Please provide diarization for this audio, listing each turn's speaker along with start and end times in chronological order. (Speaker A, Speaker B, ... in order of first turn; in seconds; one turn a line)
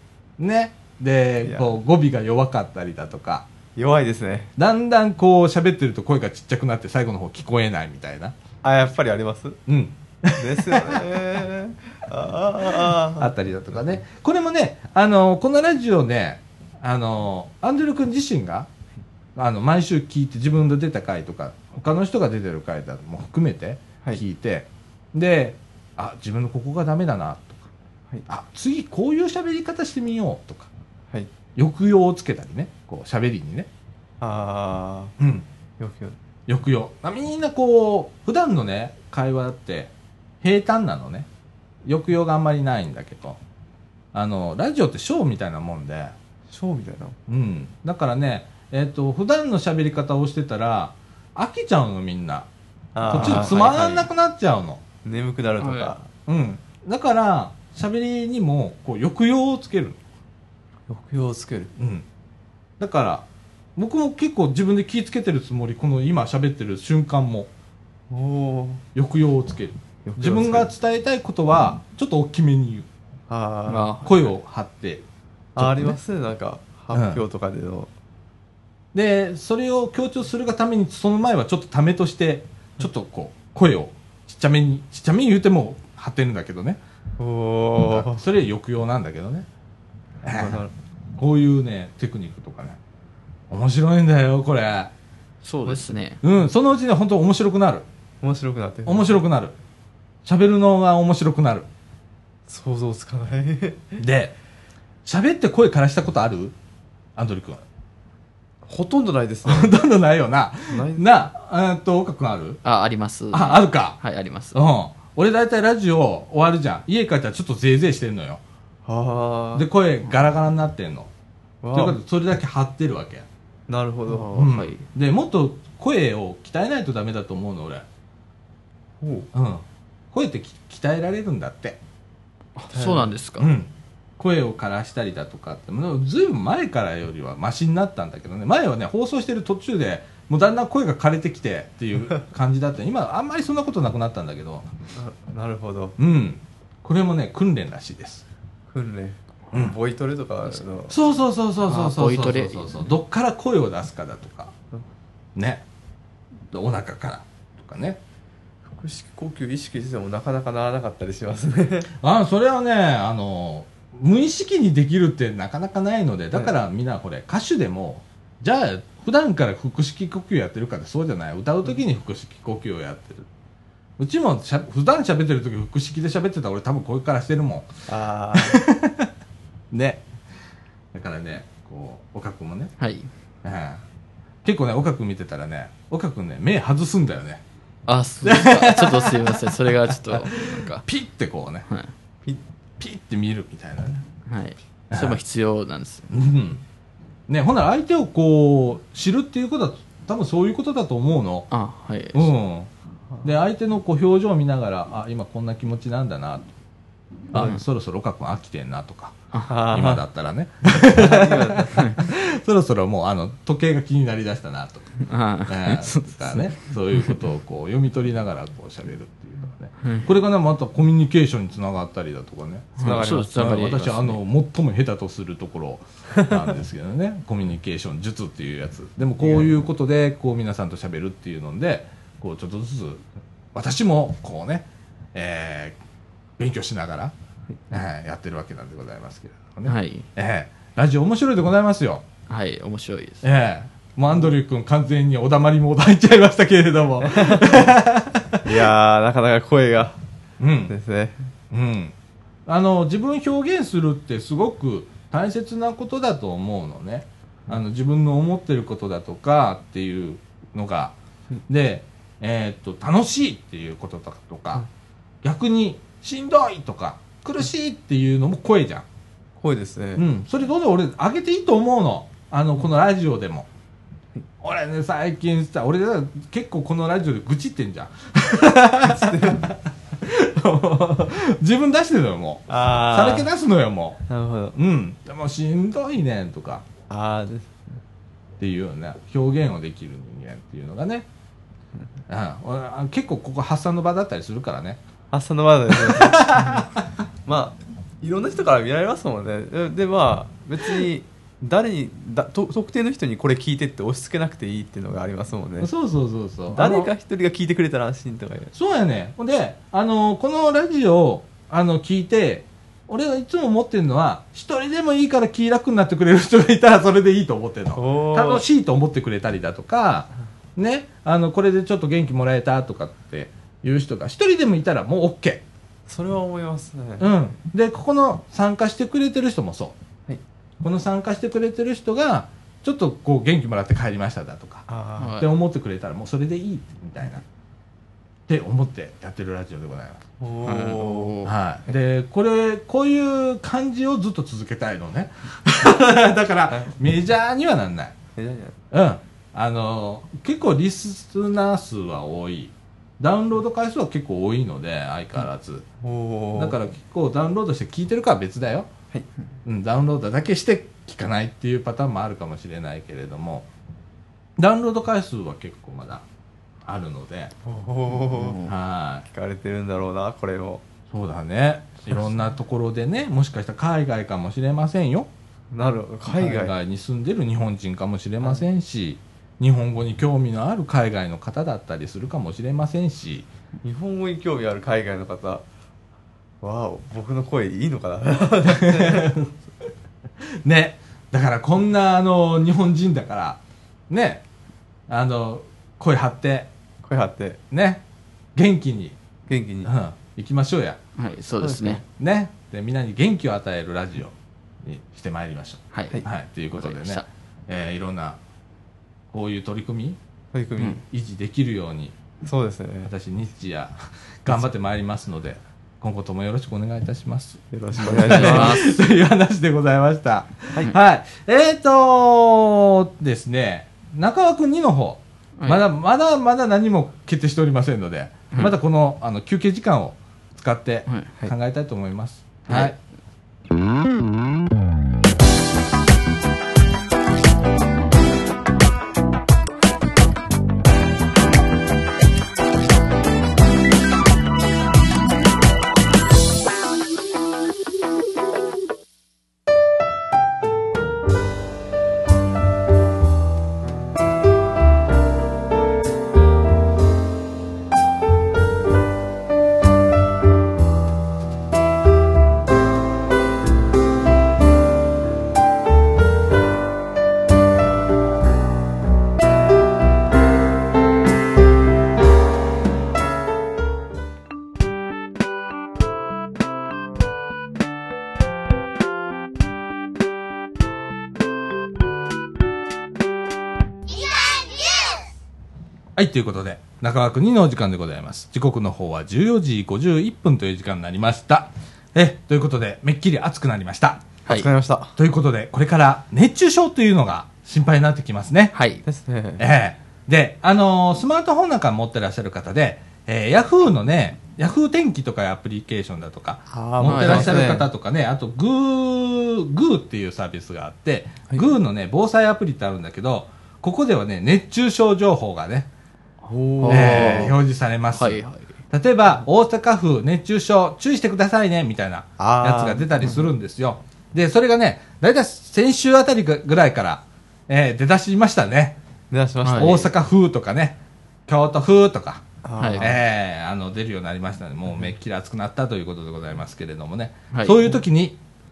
Speaker A: 0.4-3.5
Speaker B: 1.4-1.7
Speaker B: 3.8-4.5
Speaker A: 4.6-8.3
Speaker B: 8.6-9.6
Speaker A: 9.7-11.2
Speaker B: 10.4-13.3
Speaker A: 12.7-18.7
Speaker A: 19.4-27.6
Speaker A: 28.3-30.7
Speaker A: 31.6-33.7
Speaker B: 34.2-35.1
Speaker A: 35.2-35.5
Speaker B: 35.8-36.1
Speaker A: 36.5-41.3
Speaker A: 41.8-43.4
Speaker A: 44.1-46.1
Speaker B: 46.5-47.1
Speaker A: 47.3-52.5
Speaker B: 52.9-54.0
Speaker A: 53.1-54.8
Speaker C: 53.2-53.8
Speaker B: 55.0-56.1
Speaker C: 55.6-55.9
Speaker A: 56.3-60.0
Speaker B: 60.9-61.7
Speaker A: 61.8-62.0
Speaker A: 62.8-63.2
Speaker A: 63.8-67.5
Speaker B: 68.1-68.8
Speaker A: 68.9-72.9
Speaker B: 70.0-70.7
Speaker B: 73.3-73.9
Speaker C: 73.7-74.2
Speaker A: 74.0-75.0
Speaker B: 75.5-77.9
Speaker A: 75.6-76.0
Speaker A: 76.9-77.2
Speaker A: 78.9-86.8
Speaker B: 87.2-88.2
Speaker A: 87.8-89.5
Speaker B: 90.2-90.7
Speaker A: 90.2-90.6
Speaker A: 91.2-92.8
Speaker A: 93.5-94.9
Speaker C: 95.4-96.2
Speaker A: 96.2-97.8
Speaker B: 98.2-99.2
Speaker A: 98.8-99.5
Speaker A: 100.2-101.7
Speaker B: 102.5-104.0
Speaker A: 104.0-104.3
Speaker A: 105.0-106.5
Speaker A: 107.2-107.6
Speaker B: 108.6-109.8
Speaker A: 109.4-112.6
Speaker B: 110.7-111.1
Speaker C: 112.6-114.5
Speaker A: 113.3-114.0
Speaker A: 114.5-118.4
Speaker B: 118.8-119.7
Speaker A: 119.5-121.1
Speaker B: 121.6-122.0
Speaker A: 121.7-123.2
Speaker B: 123.7-124.5
Speaker C: 124.1-124.8
Speaker A: 124.3-127.8
Speaker B: 129.0-129.3
Speaker A: 129.3-131.8
Speaker C: 132.6-133.5
Speaker B: 132.7-133.1
Speaker A: 133.4-144.7
Speaker B: 144.9-146.0
Speaker A: 146.0-148.2
Speaker B: 148.7-150.9
Speaker A: 150.9-154.5
Speaker C: 151.7-152.7
Speaker A: 155.3-155.6
Speaker A: 156.5-158.0
Speaker B: 158.7-161.9
Speaker A: 162.0-173.3
Speaker A: 174.0-177.7
Speaker B: 177.9-178.6
Speaker A: 178.3-179.1
Speaker A: 179.7-180.0
Speaker A: 180.9-182.7
Speaker C: 182.8-183.1
Speaker A: 183.4-183.8
Speaker A: 184.4-187.4
Speaker C: 187.9-190.8
Speaker A: 188.2-189.5
Speaker A: 190.1-191.7
Speaker A: 192.8-194.0
Speaker C: 194.3-196.1
Speaker A: 194.9-195.2
Speaker A: 196.1-196.6
Speaker A: 197.3-201.5
Speaker C: 201.5-202.3
Speaker A: 202.1-202.7
Speaker A: 203.2-206.5
Speaker A: 207.3-235.8
Speaker C: 207.3-207.6
Speaker B: 209.4-210.0
Speaker B: 210.7-211.9
Speaker C: 215.0-217.1
Speaker C: 219.8-220.1
Speaker B: 222.8-224.1
Speaker C: 222.8-224.1
Speaker B: 229.2-229.6
Speaker A: 236.4-237.1
Speaker A: 237.7-242.0
Speaker C: 239.7-240.0
Speaker C: 242.3-243.2
Speaker A: 243.2-248.7
Speaker B: 247.0-247.6
Speaker B: 248.4-250.0
Speaker A: 250.4-250.7
Speaker B: 250.7-251.2
Speaker A: 251.5-251.9
Speaker A: 252.4-260.9
Speaker A: 261.5-264.6
Speaker A: 265.2-268.9
Speaker B: 269.4-270.0
Speaker A: 270.0-273.5
Speaker A: 274.4-284.0
Speaker B: 278.8-279.4
Speaker B: 282.5-283.3
Speaker B: 284.1-284.6
Speaker A: 284.5-286.6
Speaker B: 286.9-287.6
Speaker A: 288.4-291.1
Speaker A: 292.1-294.8
Speaker B: 295.1-296.7
Speaker A: 295.7-296.7
Speaker B: 297.2-305.7
Speaker A: 305.6-306.9
Speaker B: 306.5-308.5
Speaker A: 308.5-325.4
Speaker B: 317.7-318.4
Speaker B: 325.9-327.1
Speaker A: 327.0-329.8
Speaker A: 330.6-334.6
Speaker B: 334.7-335.2
Speaker C: 335.0-335.3
Speaker A: 335.2-337.2
Speaker A: 338.3-340.0
Speaker B: 340.2-341.2
Speaker C: 340.4-341.3
Speaker A: 341.2-347.9
Speaker B: 348.1-348.6
Speaker A: 348.7-355.6
Speaker B: 355.8-356.6
Speaker A: 356.4-358.7
Speaker A: 359.4-363.5
Speaker A: 364.4-366.0
Speaker A: 366.6-367.3
Speaker B: 367.4-368.4
Speaker C: 368.1-368.5
Speaker A: 368.4-369.0
Speaker B: 369.1-370.6
Speaker A: 370.9-375.1
Speaker B: 375.5-376.5
Speaker A: 376.1-383.3
Speaker B: 383.6-385.4
Speaker B: 386.4-389.1
Speaker A: 388.4-389.3
Speaker A: 390.2-394.2
Speaker A: 394.9-396.5
Speaker B: 396.8-397.4
Speaker A: 397.5-397.8
Speaker A: 398.3-399.0
Speaker B: 399.3-399.7
Speaker A: 399.6-400.8
Speaker C: 401.0-401.8
Speaker B: 401.4-401.8
Speaker A: 402.0-408.2
Speaker C: 405.7-406.0
Speaker C: 406.5-407.1
Speaker A: 409.1-410.0
Speaker B: 410.3-410.8
Speaker A: 410.9-411.9
Speaker B: 412.2-412.9
Speaker A: 412.9-432.8
Speaker B: 417.5-418.6
Speaker C: 417.8-418.7
Speaker C: 432.5-432.7
Speaker A: 485.9-494.1
Speaker B: 494.3-494.9
Speaker A: 495.0-498.5
Speaker C: 498.5-498.8
Speaker B: 498.8-499.4
Speaker A: 499.4-515.7
Speaker B: 506.5-507.7
Speaker C: 506.8-507.4
Speaker B: 516.3-517.3
Speaker C: 516.6-517.4
Speaker A: 516.6-528.8
Speaker C: 517.9-518.4
Speaker B: 522.2-523.3
Speaker B: 529.1-529.9
Speaker C: 529.4-529.8
Speaker A: 529.5-532.2
Speaker B: 532.4-533.0
Speaker C: 532.6-532.9
Speaker A: 532.8-538.2
Speaker C: 537.3-537.6